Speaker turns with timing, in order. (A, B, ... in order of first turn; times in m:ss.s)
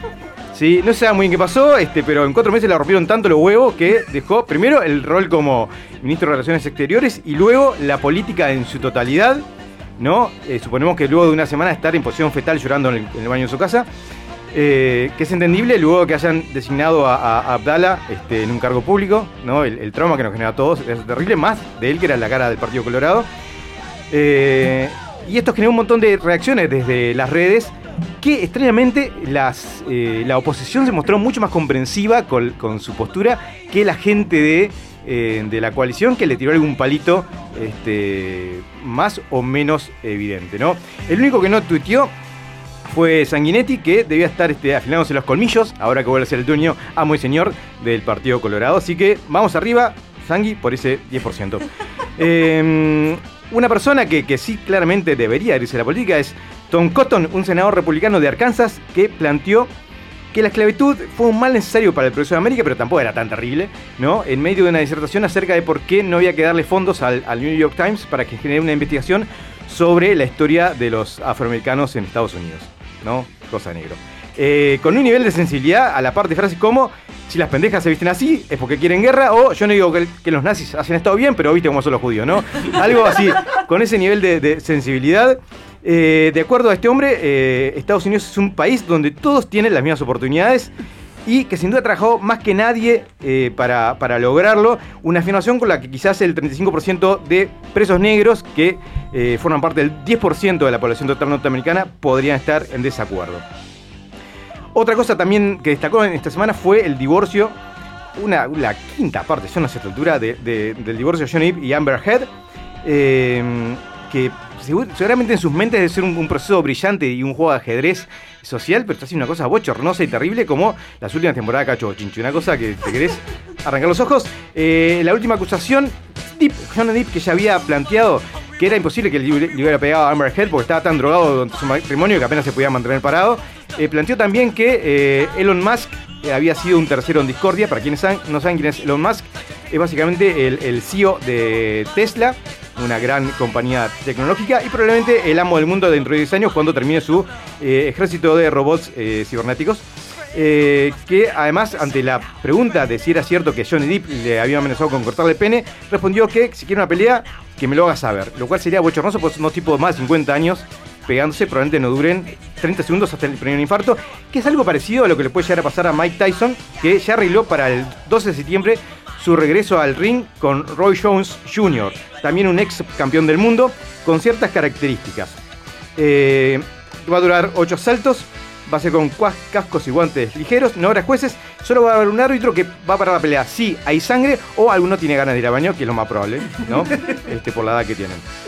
0:00.5-0:09.5 A
0:10.0-0:13.9 A
0:14.5-0:23.3 A
0:24.1-0:42.1 A
0:42.8-0:51.7 A
0:52.2-0:59.7 A
1:00.3-1:30.7 A
1:31.2-1:43.4 A
1:44.7-1:47.6 A
1:48.2-1:52.3 A
1:52.8-2:55.4 A
2:56.0-3:08.2 A